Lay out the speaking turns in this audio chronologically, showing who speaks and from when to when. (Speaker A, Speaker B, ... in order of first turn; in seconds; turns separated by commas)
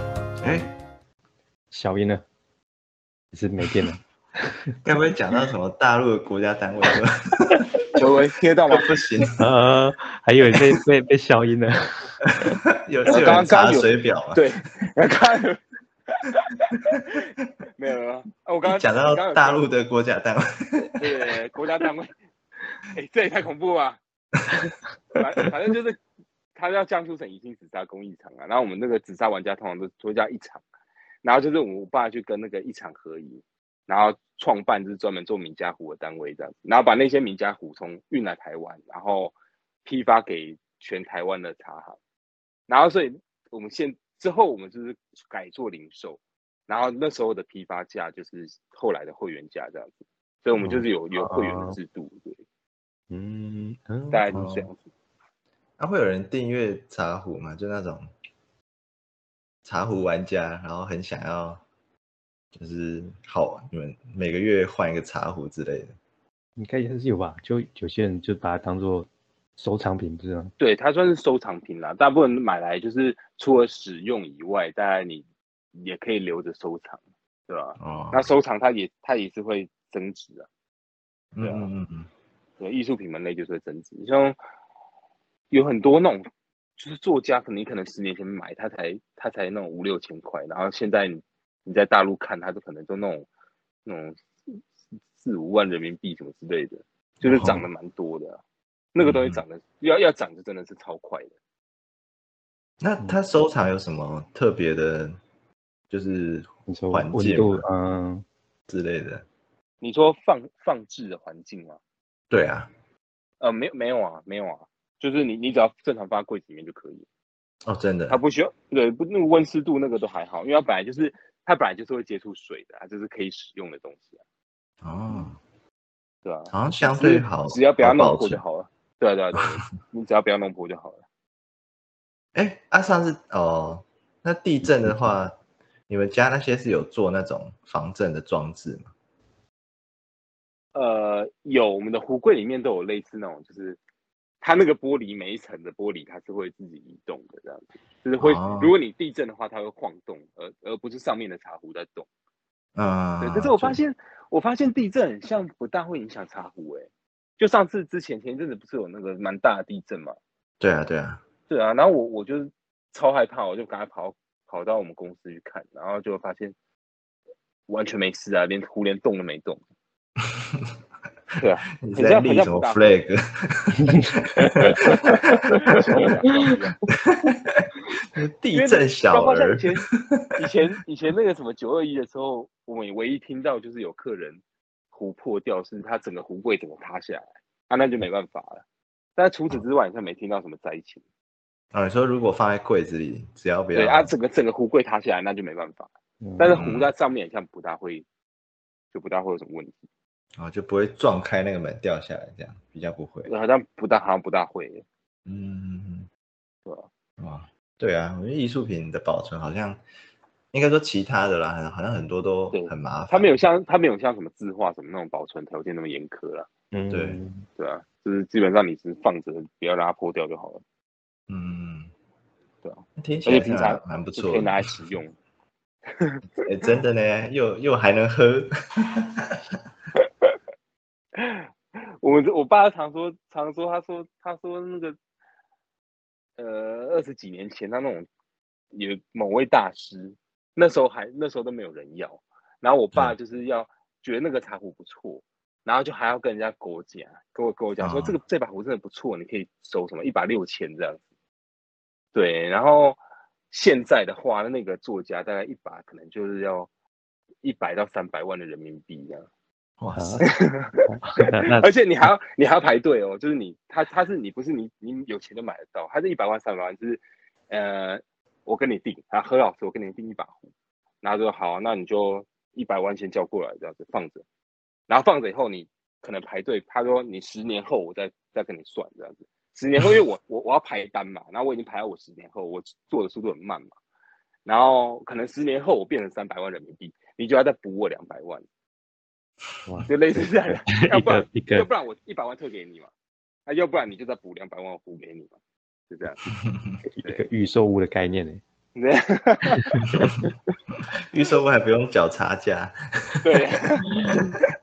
Speaker A: 0.4-0.7, Speaker B: 1.7-2.2, Speaker B: 3.3-4.8, Speaker A: 4.8-8.1, Speaker C: 8.0-8.9, Speaker A: 8.7-9.4, Speaker B: 9.4-12.0, Speaker A: 12.4-14.4, Speaker C: 13.1-19.6, Speaker A: 18.6-21.1, Speaker C: 21.0-22.1, Speaker C: 22.9-24.0, Speaker C: 25.1-26.0, Speaker C: 26.6-30.6, Speaker C: 31.2-42.0, Speaker C: 42.7-52.4, Speaker B: 50.6-51.8, Speaker B: 53.1-54.4, Speaker C: 54.1-54.9, Speaker A: 54.3-54.7, Speaker A: 55.8-58.1, Speaker A: 59.6-61.6, Speaker A: 62.5-65.9, Speaker B: 66.6-70.5, Speaker C: 70.6-80.5, Speaker A: 77.8-78.3, Speaker A: 81.3-82.1, Speaker C: 81.4-81.7, Speaker C: 82.6-84.4, Speaker C: 85.5-93.3, Speaker C: 93.9-94.6, Speaker C: 95.2-98.4, Speaker A: 97.2-97.7, Speaker C: 99.0-101.3, Speaker A: 99.0-99.4, Speaker A: 102.8-105.2, Speaker A: 105.9-107.7, Speaker B: 106.7-108.2, Speaker A: 108.7-109.3, Speaker C: 109.8-111.8, Speaker A: 112.3-112.7, Speaker C: 113.4-117.1, Speaker A: 117.7-118.2, Speaker C: 118.1-124.2, Speaker A: 124.8-125.4, Speaker C: 126.2-131.0, Speaker A: 126.5-128.4, Speaker A: 132.3-135.3, Speaker B: 134.6-135.1, Speaker A: 135.9-138.9, Speaker C: 140.8-143.8, Speaker C: 144.4-152.1, Speaker A: 148.2-148.7, Speaker A: 152.8-153.8, Speaker C: 153.2-160.2, Speaker A: 160.6-161.2, Speaker C: 161.5-166.6, Speaker C: 167.7-169.6, Speaker C: 171.4-173.0, Speaker A: 171.8-176.1, Speaker B: 173.9-175.2, Speaker C: 174.6-176.8, Speaker A: 177.1-180.3, Speaker C: 178.5-184.4, Speaker C: 184.9-188.6, Speaker C: 189.2-191.0, Speaker A: 191.7-194.1, Speaker C: 193.7-198.1, Speaker B: 196.2-196.6, Speaker A: 196.5-196.9, Speaker C: 198.9-199.8, Speaker A: 200.4-203.3, Speaker C: 203.3-204.8, Speaker A: 205.3-206.1, Speaker A: 207.2-209.8, Speaker A: 210.5-213.3, Speaker C: 212.5-216.5, Speaker B: 216.7-217.5, Speaker A: 216.9-217.2, Speaker C: 217.6-220.6, Speaker A: 221.3-221.9, Speaker C: 222.6-225.2, Speaker A: 223.0-224.9, Speaker C: 225.9-226.2, Speaker A: 226.4-229.6, Speaker C: 230.0-230.4, Speaker C: 231.2-235.0, Speaker C: 236.4-238.1, Speaker C: 238.7-251.0, Speaker A: 247.8-248.2, Speaker C: 252.1-253.0, Speaker C: 253.5-256.7, Speaker C: 257.4-259.3, Speaker A: 259.8-260.3, Speaker B: 260.0-260.2, Speaker C: 260.3-270.5, Speaker B: 260.9-261.7, Speaker C: 271.0-274.2, Speaker C: 274.9-283.7, Speaker C: 284.5-288.4, Speaker B: 289.7-291.7, Speaker C: 289.9-292.9, Speaker C: 293.5-295.3, Speaker C: 295.9-296.2, Speaker A: 296.4-296.8, Speaker B: 296.9-298.4, Speaker C: 298.8-299.8, Speaker B: 299.6-300.3, Speaker A: 301.0-303.4, Speaker C: 303.2-304.0, Speaker A: 304.1-304.3